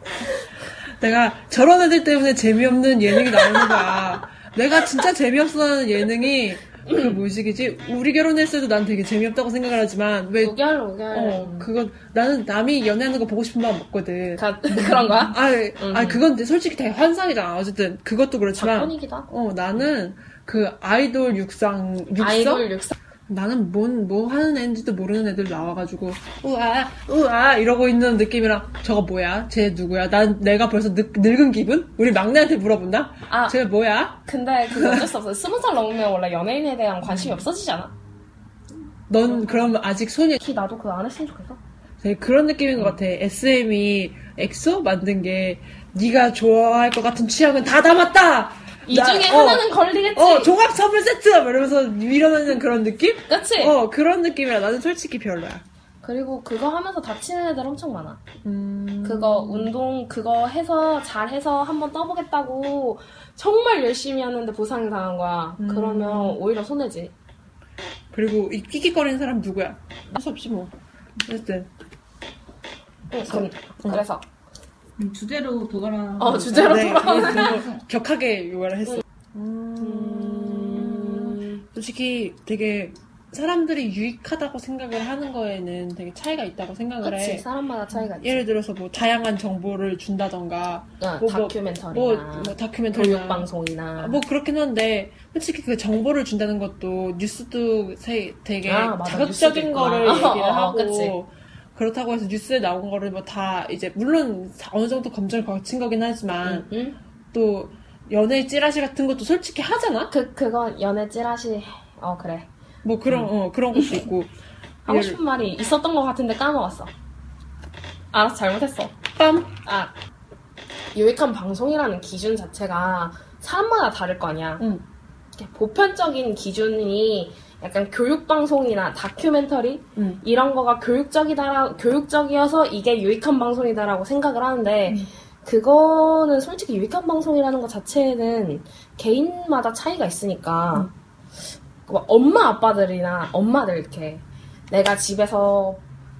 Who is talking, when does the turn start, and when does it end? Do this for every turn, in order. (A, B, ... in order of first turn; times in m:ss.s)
0:01.0-0:10.6 A
0:03.4-0:03.9 B
0:06.8-0:07.2 B
0:10.4-0:11.7 B
0:11.1-0:22.7 A
0:14.4-0:16.2 B
0:18.6-0:19.9 B
0:22.2-0:23.0 B
0:23.3-0:35.1 A
0:33.3-0:33.6 B
0:34.2-0:37.9 B
0:37.1-0:37.4 A
0:39.1-0:40.4 A
0:39.2-0:39.7 B
0:40.4-0:41.6 B
0:42.0-0:55.6 A
0:48.8-0:50.6 B
0:53.3-0:53.8 B
0:56.0-0:58.2 B
0:58.4-0:59.7 A
0:59.0-1:07.1 B
1:05.6-1:06.4 A
1:08.1-1:10.7 A
1:11.2-1:11.7 A
1:13.1-1:14.2 B
1:13.2-1:14.0 A
1:15.0-1:17.8 C
1:16.2-1:17.6 B
1:16.6-1:27.4 A
1:19.8-1:21.6 B
1:27.0-1:28.4 B
1:28.2-1:33.4 A
1:31.0-1:34.2 B
1:34.0-1:46.7 A
1:38.6-1:41.1 B
1:46.4-1:47.0 B
1:47.3-1:50.1 A
1:50.1-1:52.5 B
1:52.8-1:54.3 A
1:53.1-1:54.1 B
1:54.8-1:56.9 B
1:54.9-1:55.2 A
1:58.1-1:58.9 B
1:59.2-1:59.5 A
1:59.6-1:59.9 B
2:00.9-2:04.6 B
2:04.6-2:04.8 A
2:05.4-2:20.9 B
2:10.0-2:10.2 A
2:21.8-2:25.8 B